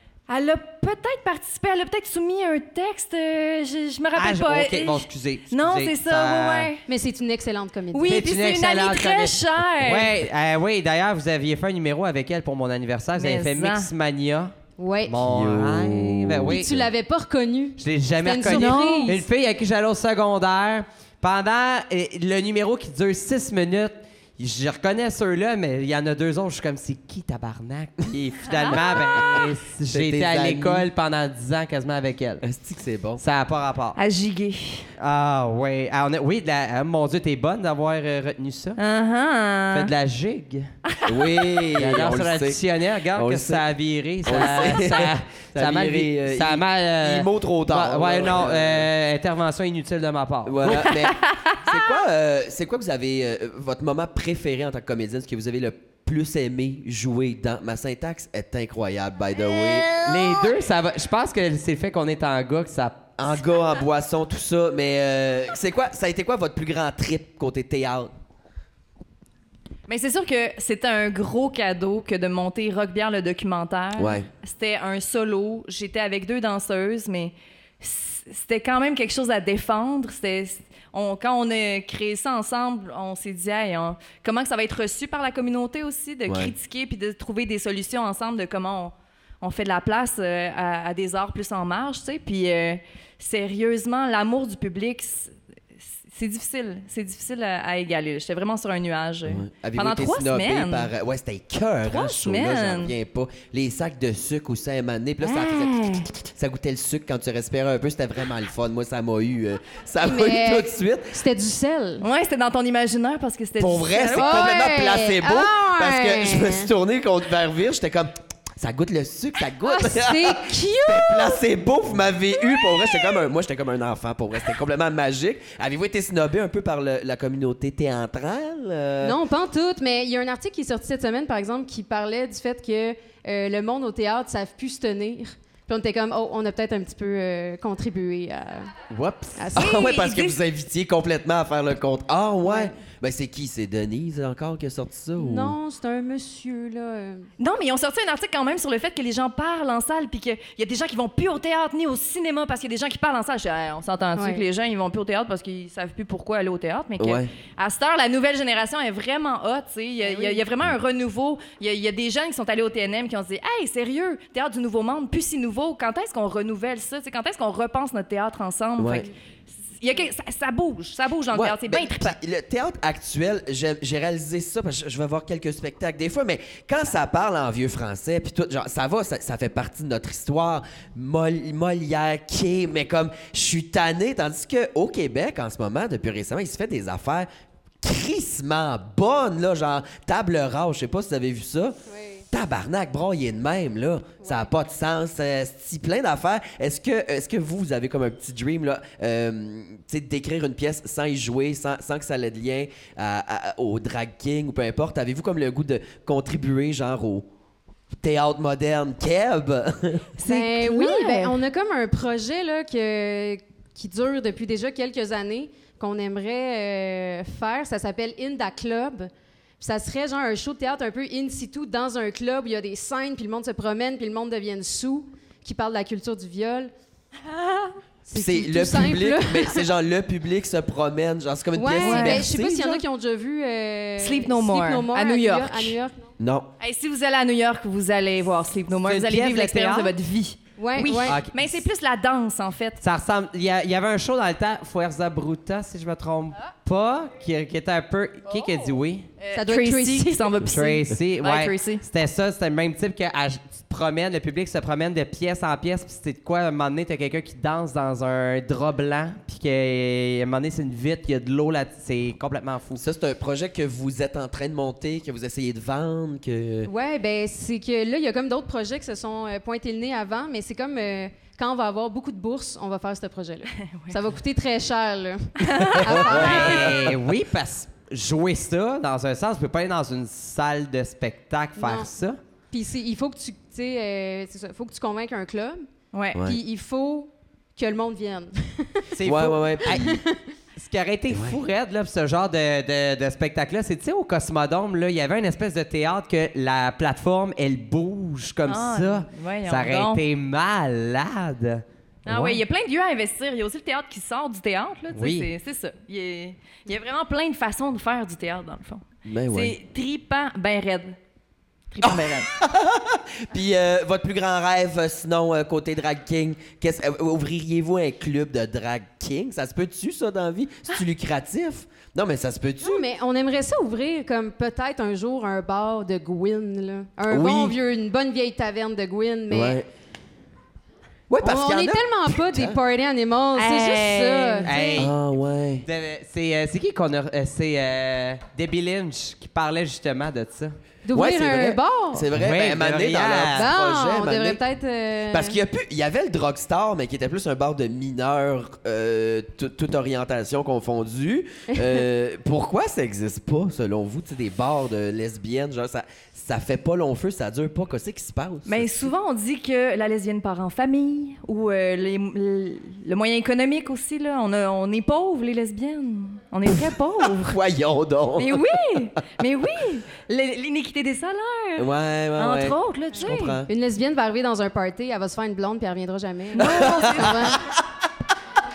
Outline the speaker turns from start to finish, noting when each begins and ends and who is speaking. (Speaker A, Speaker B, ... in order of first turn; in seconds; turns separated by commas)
Speaker A: 0.3-6.8, Speaker B: 4.2-6.7, Speaker C: 6.9-8.2, Speaker A: 7.9-10.1, Speaker B: 8.1-14.5, Speaker A: 13.2-13.9, Speaker C: 14.8-15.2, Speaker B: 15.1-16.8, Speaker D: 15.2-16.9, Speaker C: 16.5-19.2, Speaker B: 17.8-32.4, Speaker A: 18.4-19.2, Speaker A: 28.5-29.0, Speaker D: 29.2-30.9, Speaker D: 32.4-33.2, Speaker B: 33.2-34.0, Speaker A: 34.0-34.9, Speaker B: 35.0-38.8, Speaker A: 38.8-39.9, Speaker B: 39.7-40.7, Speaker A: 40.9-41.6, Speaker D: 41.1-42.6, Speaker B: 41.8-51.0, Speaker D: 43.1-43.6, Speaker D: 44.2-48.9, Speaker A: 44.4-44.6, Speaker D: 50.5-60.0, Speaker A: 50.7-51.7, Speaker B: 60.0-63.0, Speaker D: 63.2-68.1, Speaker A: 69.9-95.3, Speaker D: 74.0-74.3, Speaker D: 86.3-86.5, Speaker A: 96.1-100.9, Speaker D: 99.3-111.2, Speaker A: 101.9-102.9, Speaker A: 105.2-106.1, Speaker C: 110.0-112.0, Speaker A: 112.0-114.5, Speaker D: 113.6-129.2, Speaker C: 114.2-116.7, Speaker C: 119.7-121.4, Speaker C: 129.0-138.7, Speaker B: 138.9-139.5, Speaker C: 139.4-139.9, Speaker D: 139.6-145.6, Speaker A: 139.6-140.4, Speaker C: 142.4-142.7, Speaker C: 145.2-147.3, Speaker A: 147.4-169.1, Speaker C: 154.2-154.4, Speaker D: 157.0-157.3, Speaker C: 160.0-160.4, Speaker D: 168.8-169.1, Speaker A: 169.8-172.2, Speaker D: 171.3-187.3, Speaker D: 187.8-191.8, Speaker C: 191.9-192.2, Speaker D: 192.3-207.3, Speaker C: 194.2-194.5, Speaker D: 208.0-210.1, Speaker A: 210.2-211.4, Speaker C: 210.2-226.7, Speaker C: 228.1-229.7, Speaker D: 228.1-232.8, Speaker C: 231.6-236.1, Speaker A: 231.8-232.3, Speaker A: 234.0-235.8, Speaker D: 236.2-236.5, Speaker A: 236.6-242.8, Speaker B: 238.8-239.9, Speaker C: 240.6-241.2, Speaker D: 241.1-241.5, Speaker B: 242.8-249.1, Speaker A: 249.2-251.8, Speaker C: 249.3-250.4, Speaker B: 250.4-262.8, Speaker D: 262.8-266.7, Speaker C: 266.7-276.9, Speaker A: 273.6-273.9, Speaker A: 275.4-276.6, Speaker D: 275.8-276.9, Speaker B: 276.0-282.2, Speaker C: 281.6-281.9, Speaker C: 282.5-285.7, Speaker A: 285.9-286.2, Speaker D: 286.1-286.4, Speaker C: 286.2-288.9, Speaker B: 288.9-290.0, Speaker D: 289.0-290.0, Speaker C: 289.6-290.3, Speaker B: 290.6-302.4, Speaker D: 291.1-291.4, Speaker A: 298.5-300.0, Speaker A: 302.1-311.0, Speaker B: 304.9-305.3, Speaker D: 309.1-309.6, Speaker A: 311.7-312.3, Speaker D: 311.8-322.9, Speaker C: 322.6-329.6, Speaker D: 327.1-327.6, Speaker D: 329.3-329.7, Speaker D: 331.1-332.6, Speaker C: 331.2-334.5, Speaker A: 333.4-334.9, Speaker B: 334.4-334.9, Speaker D: 334.8-335.6, Speaker B: 335.6-340.6, Speaker C: 340.9-342.1, Speaker D: 340.9-344.4, Speaker B: 342.1-343.5, Speaker C: 343.4-345.4, Speaker D: 345.1-358.9, Speaker C: 351.5-351.8, Speaker A: 358.5-367.4, Speaker D: 366.5-368.8, Speaker A: 368.2-373.4, Speaker D: 371.6-373.5, Speaker C: 373.5-377.4, Speaker A: 376.4-377.4, Speaker D: 376.4-377.7